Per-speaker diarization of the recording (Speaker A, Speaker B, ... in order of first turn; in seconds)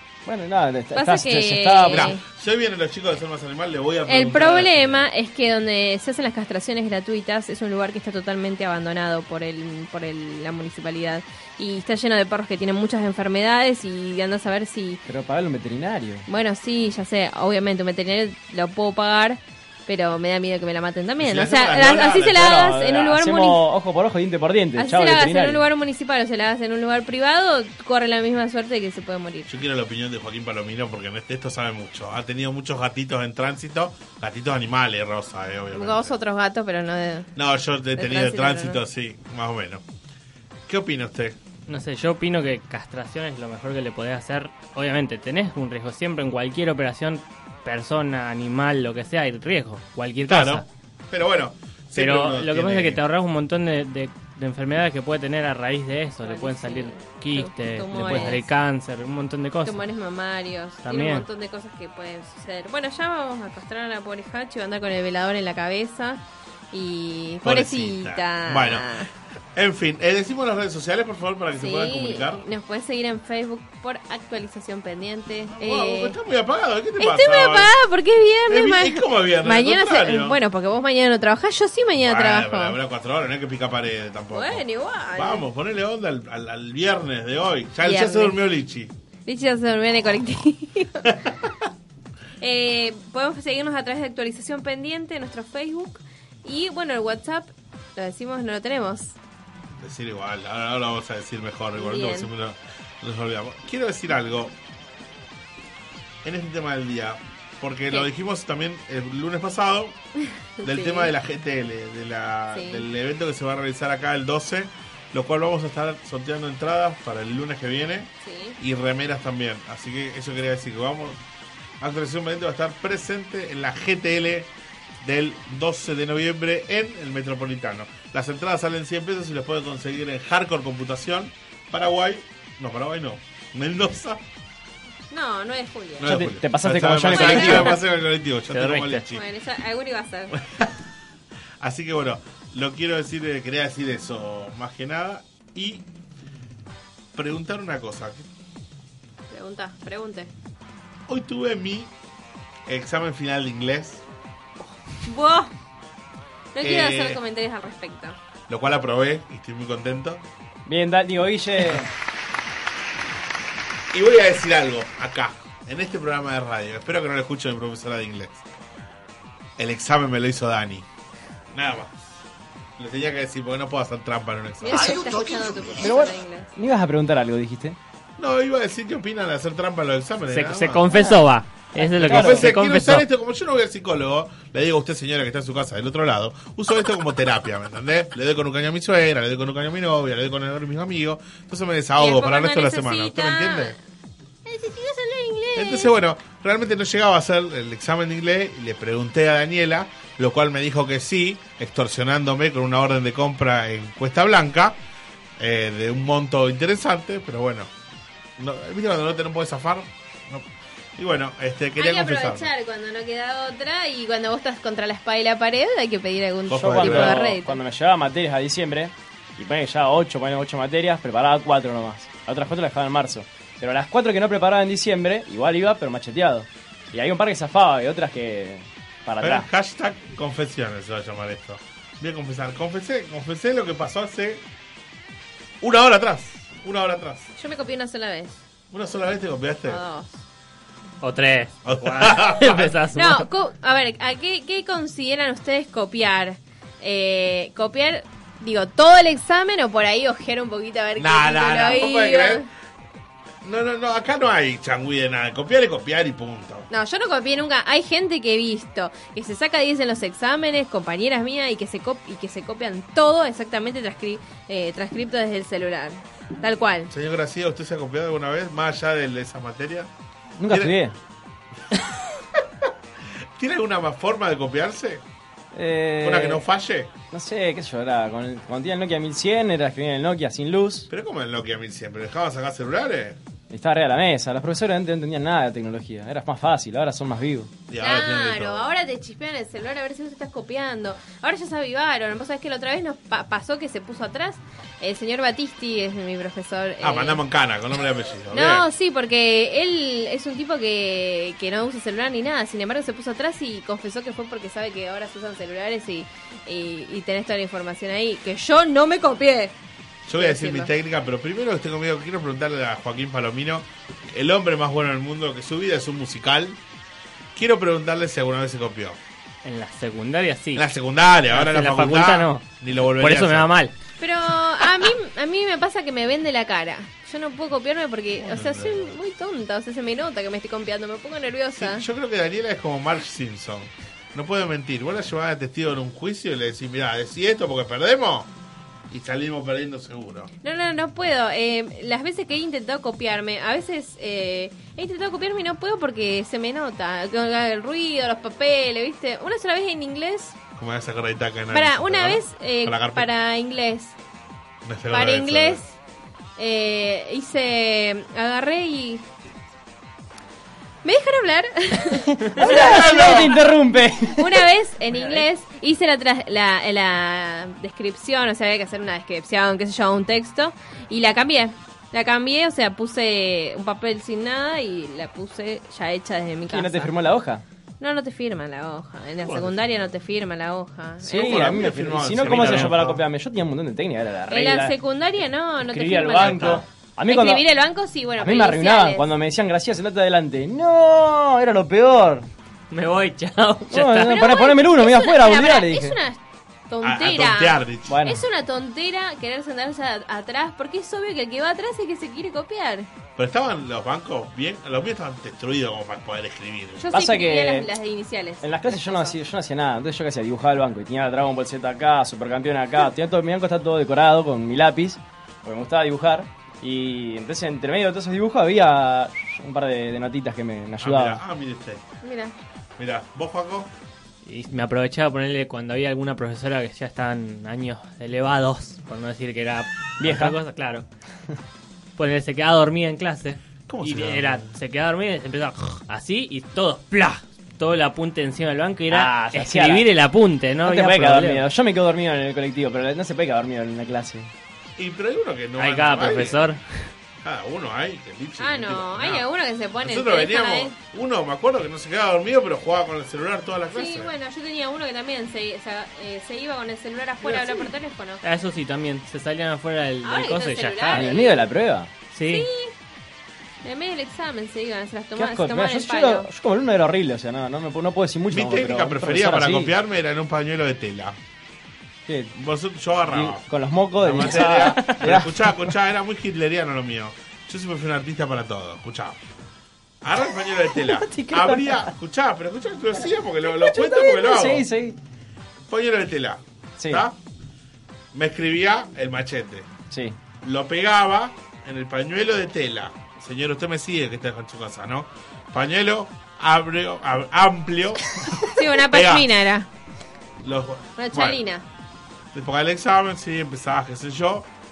Speaker A: 0.2-2.1, 15.1-16.2, 22.3-25.6, 136.0-137.8, 160.7-161.9, 175.7-177.8, 181.8-182.5, 216.5-229.5, 270.4-270.9, 275.5-276.4, 277.1-280.9, 283.5-287.5, 362.2-364.5, 376.5-377.4, 381.0-384.8, 385.6-387.4, 388.2-392.3, 393.7-396.0, 397.9-398.2, 406.9-407.7, 408.4-421.2, 430.0-430.4, 438.9-439.9, 440.6-444.3, 457.2-457.7, 460.9-461.9, 465.1-469.7, 472.1-472.3, 473.1-475.6, 480.7-481.9, 483.4-485.0, 486.8-487.1, 489.9-490.1
Speaker B: 0.9-2.2, 4.1-15.0, 16.3-23.6, 24.8-29.5, 35.7-37.3, 38.0-38.8, 56.2-58.5, 59.6-69.1, 71.6-76.1, 77.0-82.8, 84.3-85.4, 87.8-88.3, 89.2-91.1, 92.4-99.2, 101.7-102.3, 110.6-111.1, 112.5-112.8, 118.2-118.6, 135.1-136.2, 137.1-137.8, 139.1-140.4, 149.3-150.3, 154.9-155.5, 156.5-158.2, 174.6-176.5, 180.9-181.2, 192.0-193.8, 194.4-195.9, 211.8-217.6, 237.4-238.4, 239.7-240.2, 242.9-252.5, 256.7-266.9, 287.8-297.2, 298.3-309.5, 310.1-310.7, 324.0-331.8, 340.4-350.4, 351.5-353.9, 354.9-355.7, 356.4-359.1, 360.8-363.4, 364.1-376.9, 377.8-381.6, 384.3-389.1, 394.0-402.9, 406.8-409.2, 422.0-422.3, 448.4-450.7, 453.7-458.2, 460.0-461.4, 462.2-462.7, 463.6-466.3, 498.4-499.7, 501.0-501.6
Speaker C: 1.9-5.0, 21.2-22.7, 29.5-36.1, 37.4-39.8, 40.7-41.4, 50.3-53.0, 58.0-58.4, 67.4-72.4, 75.5-77.7, 78.5-80.4, 82.0-88.9, 91.1-91.5, 99.7-104.5, 106.2-110.0, 110.6-121.2, 121.8-134.2, 136.0-139.2, 140.4-140.7, 141.6-145.8, 147.1-148.3, 151.1-151.9, 152.7-154.0, 156.6-157.2, 158.5-160.2, 163.9-168.4, 169.6-170.8, 171.5-171.9, 172.8-175.7, 178.2-180.9, 182.0-193.8, 195.5-204.8, 205.4-207.7, 208.4-212.5, 216.5-217.2, 229.2-234.4, 235.6-237.3, 238.7-239.8, 241.6-242.7, 250.9-252.5, 253.4-256.7, 266.9-269.9, 270.5-270.8, 271.7-272.7, 273.4-275.0, 276.0-276.9, 280.9-283.2, 287.7-288.7, 296.8-298.7, 310.1-316.6, 317.3-319.0, 320.5-323.5, 328.2-329.0, 331.6-338.3, 338.9-340.3, 350.6-353.1, 354.6-355.6, 362.4-363.4, 379.2-379.9, 381.0-383.0, 386.2-386.6, 396.8-398.0, 403.2-406.9, 420.8-421.8, 422.8-423.7, 433.7-434.5, 444.8-446.4, 447.2-449.3, 449.8-454.1, 468.3-471.2, 472.3-473.4, 474.0-479.2, 480.0-484.7, 485.7-487.2, 488.1-489.7, 490.4-499.3, 500.4-501.4, 502.3-504.5
Speaker D: 41.7-50.6, 51.9-59.8, 60.8-61.3, 138.5-139.0, 180.3-183.1, 241.0-243.3, 319.4-320.7, 321.3-323.7, 382.3-382.7, 392.7-394.2, 424.2-430.9, 432.0-441.4, 445.6-446.9, 458.2-461.1, 462.1-462.5, 474.6-474.9